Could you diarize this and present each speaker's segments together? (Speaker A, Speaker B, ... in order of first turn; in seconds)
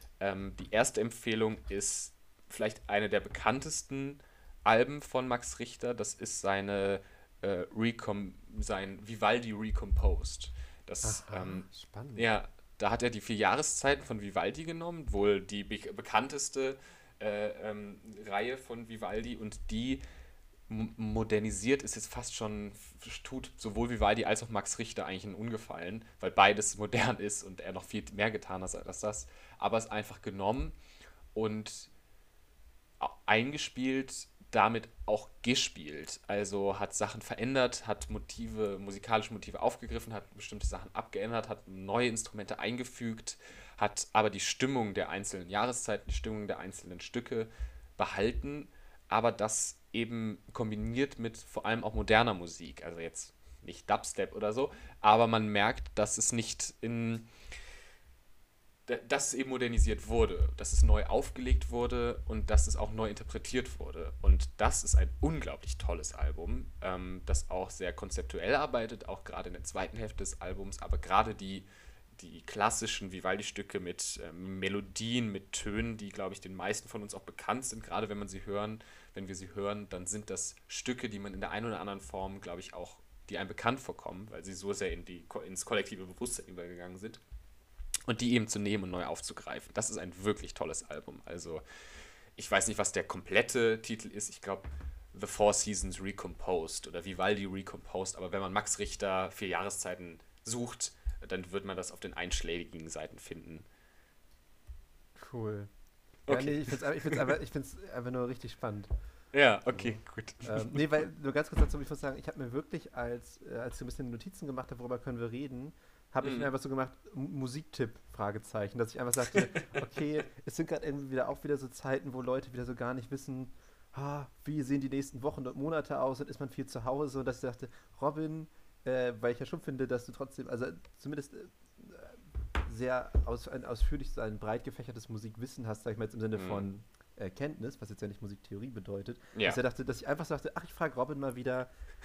Speaker A: 0.2-20.0, 20.7-30.8, 31.3-31.9, 33.0-57.3, 58.9-87.2, 88.1-91.6, 92.3-103.7, 106.3-107.2, 109.3-110.8, 116.2-116.5, 136.3-136.7, 139.3-139.6
Speaker B: 11.0-12.2, 105.2-105.7, 106.3-108.9, 109.7-141.7